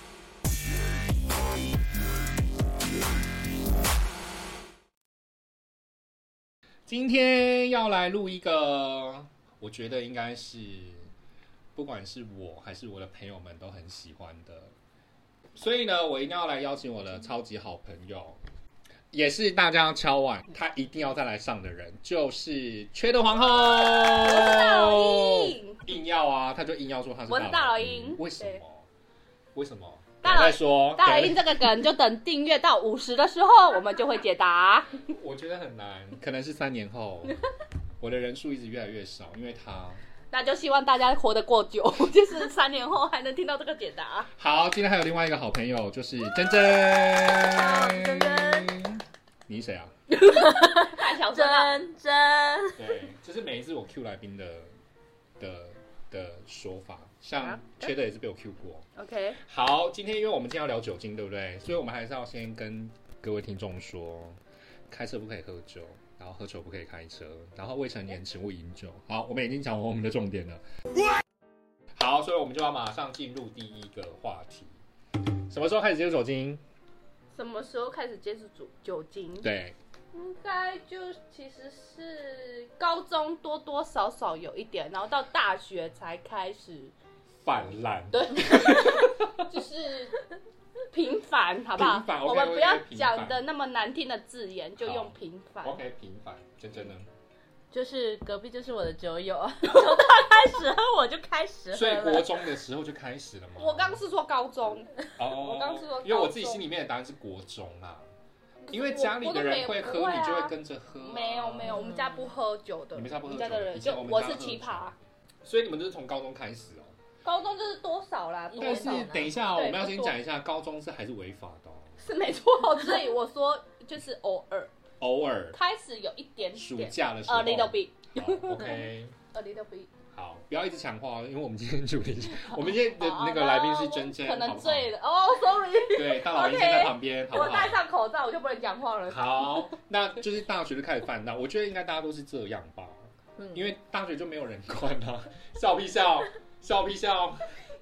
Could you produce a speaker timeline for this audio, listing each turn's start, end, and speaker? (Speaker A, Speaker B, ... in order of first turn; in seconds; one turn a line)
Speaker A: 6.9-11.1
Speaker A: 11.8-14.8
Speaker A: 15.6-18.4
Speaker A: 19.1-28.9
Speaker B: 24.1-25.9
Speaker B: 27.3-28.6
Speaker A: 29.5-31.5
Speaker B: 30.2-35.1
Speaker A: 35.1-37.4
Speaker A: 38.0-40.0
Speaker B: 40.3-44.3
Speaker A: 44.4-49.9
Speaker C: 47.4-48.7
Speaker B: 50.1-51.8
Speaker C: 50.3-52.9
Speaker A: 52.8-54.7
Speaker A: 55.4-58.9
Speaker B: 57.4-57.9
Speaker B: 59.0-59.4
Speaker A: 59.4-70.6
Speaker A: 72.0-74.8
Speaker A: 75.5-76.6
Speaker B: 77.3-79.5
Speaker A: 79.4-79.8
Speaker B: 80.1-86.9
Speaker A: 87.4-89.5
Speaker B: 88.1-90.2
Speaker B: 90.9-95.8
Speaker A: 91.8-93.4
Speaker A: 94.8-97.1
Speaker C: 97.7-102.4
Speaker A: 101.7-104.0
Speaker B: 103.6-106.7
Speaker A: 105.2-108.1
Speaker B: 108.7-115.0
Speaker A: 108.7-111.8
Speaker C: 111.7-112.3
Speaker A: 112.9-117.0
Speaker B: 117.2-120.2
Speaker C: 118.5-119.4
Speaker A: 118.5-122.0
Speaker B: 122.0-124.7
Speaker A: 125.0-125.6
Speaker B: 125.5-128.8
Speaker A: 126.5-129.2
Speaker B: 129.3-129.9
Speaker A: 130.1-134.9
Speaker B: 132.7-139.7
Speaker A: 135.9-137.8
Speaker A: 139.1-147.5
Speaker C: 143.4-143.7